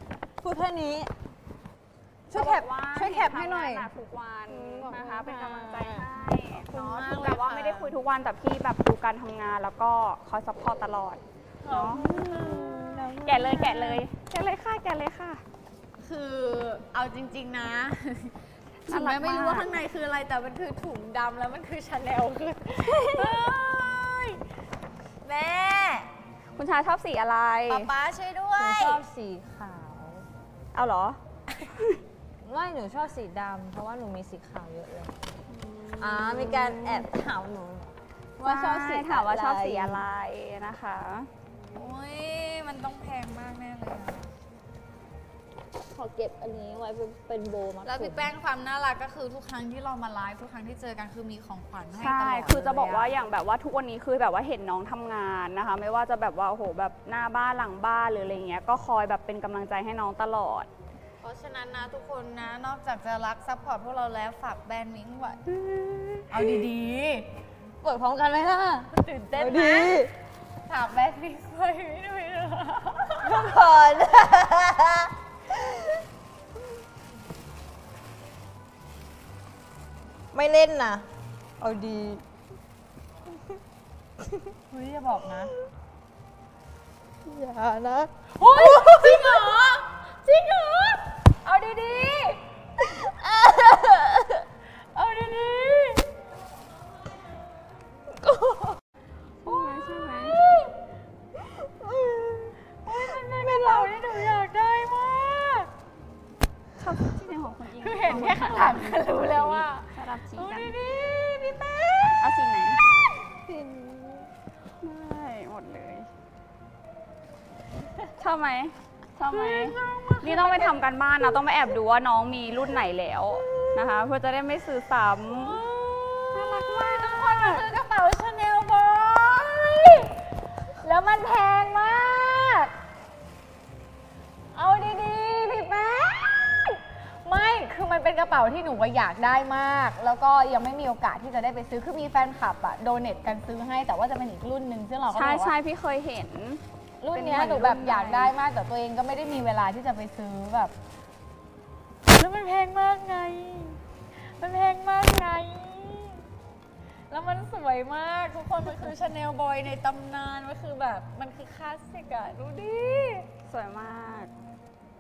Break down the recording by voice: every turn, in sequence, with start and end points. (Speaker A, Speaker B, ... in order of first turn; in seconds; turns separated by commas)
Speaker A: 0.4-1.1, Speaker B: 2.3-3.9, Speaker C: 2.3-15.4, Speaker A: 4.5-6.1, Speaker B: 6.6-8.0, Speaker B: 11.6-14.0, Speaker A: 12.9-13.7, Speaker B: 16.0-18.4, Speaker C: 18.8-19.7, Speaker B: 18.9-24.4, Speaker C: 22.8-23.6, Speaker B: 25.2-26.0, Speaker C: 26.6-27.9, Speaker B: 27.7-29.0, Speaker A: 28.6-30.3, Speaker C: 30.7-31.2, Speaker A: 32.4-35.2, Speaker C: 35.5-37.1, Speaker A: 36.0-40.0, Speaker C: 38.4-41.3, Speaker B: 41.7-44.3, Speaker A: 45.9-48.3, Speaker B: 47.8-53.1, Speaker C: 51.9-60.7, Speaker B: 61.2-65.4, Speaker A: 65.7-66.7, Speaker B: 66.3-67.3, Speaker A: 67.8-70.1, Speaker B: 68.9-70.0, Speaker B: 70.7-73.5, Speaker A: 73.2-75.8, Speaker A: 80.3-81.1, Speaker A: 81.6-82.2, Speaker B: 84.7-85.5, Speaker A: 87.3-89.5, Speaker B: 88.3-92.4, Speaker A: 93.0-94.4, Speaker B: 94.9-96.0, Speaker A: 98.2-98.7, Speaker C: 99.4-100.4, Speaker B: 100.4-100.6, Speaker A: 101.5-104.1, Speaker B: 102.9-105.7, Speaker C: 106.8-110.7, Speaker B: 107.8-112.8, Speaker C: 112.2-112.8, Speaker A: 113.5-114.3, Speaker C: 114.8-116.1, Speaker C: 118.2-125.6, Speaker B: 119.3-121.4, Speaker B: 125.3-130.2, Speaker C: 126.3-127.7, Speaker B: 130.8-132.7, Speaker B: 134.5-145.5, Speaker C: 145.1-146.6, Speaker B: 147.0-150.7, Speaker C: 147.1-148.3, Speaker B: 152.1-156.2, Speaker B: 157.1-163.3, Speaker C: 163.5-164.3